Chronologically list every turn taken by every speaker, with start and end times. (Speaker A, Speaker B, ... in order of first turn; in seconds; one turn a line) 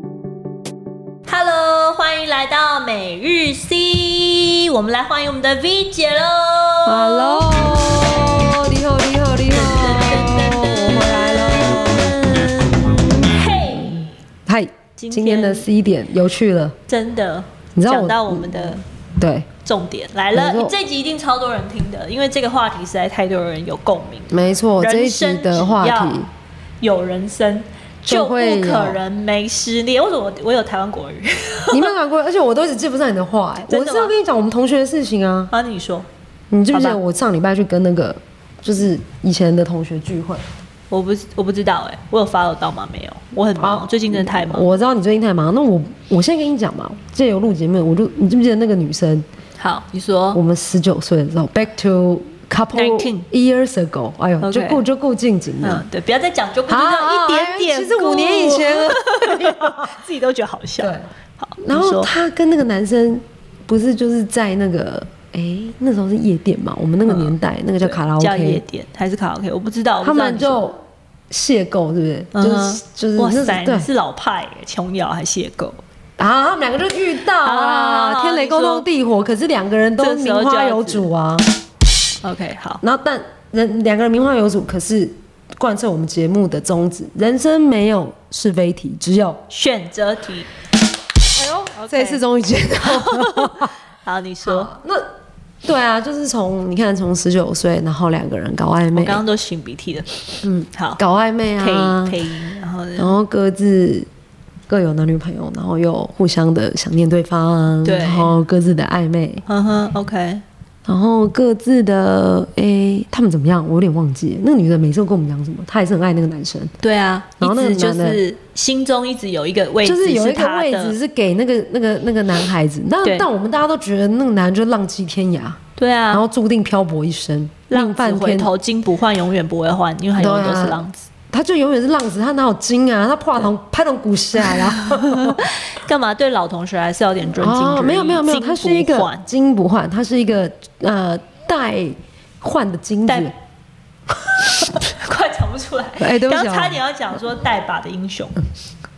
Speaker A: 1.3-7.7
Speaker B: 6.9-12.2
Speaker A: 9.5-14.1
Speaker B: 14.5-16.8
Speaker A: 15.0-15.7
Speaker A: 16.9-18.8
Speaker B: 17.8-19.5
Speaker A: 19.6-26.3
Speaker B: 20.3-20.7
Speaker B: 24.3-26.3
Speaker A: 26.8-31.9
Speaker B: 28.1-29.0
Speaker B: 31.7-35.5
Speaker A: 33.6-34.1
Speaker A: 35.5-36.1
Speaker B: 36.5-40.4
Speaker A: 36.7-37.0
Speaker A: 40.9-44.7
Speaker B: 43.6-49.3
Speaker A: 49.6-50.4
Speaker B: 50.3-55.9
Speaker A: 52.7-53.3
Speaker A: 54.4-54.8
Speaker A: 55.6-62.1
Speaker B: 56.7-60.0
Speaker B: 60.8-61.1
Speaker B: 61.6-68.6
Speaker A: 67.1-70.6
Speaker B: 70.0-73.9
Speaker A: 72.3-75.8
Speaker B: 76.2-81.5
Speaker A: 77.4-78.9
Speaker A: 80.0-81.1
Speaker A: 82.2-82.8
Speaker B: 82.8-89.4
Speaker A: 89.5-90.5
Speaker B: 91.3-93.7
Speaker A: 91.8-92.2
Speaker A: 92.8-94.7
Speaker B: 94.5-95.0
Speaker B: 95.6-99.2
Speaker A: 98.9-101.0
Speaker B: 100.4-102.2
Speaker A: 101.6-103.1
Speaker B: 103.0-104.1
Speaker B: 104.7-109.4
Speaker A: 107.8-108.3
Speaker A: 109.5-110.4
Speaker B: 110.9-116.7
Speaker A: 116.8-121.0
Speaker B: 117.4-118.2
Speaker B: 119.8-125.6
Speaker A: 123.0-123.3
Speaker A: 125.8-126.2
Speaker B: 126.1-128.5
Speaker A: 127.7-131.1
Speaker B: 130.2-135.4
Speaker A: 134.4-139.2
Speaker B: 137.3-143.3
Speaker A: 143.1-143.3
Speaker A: 144.4-148.4
Speaker B: 146.0-146.8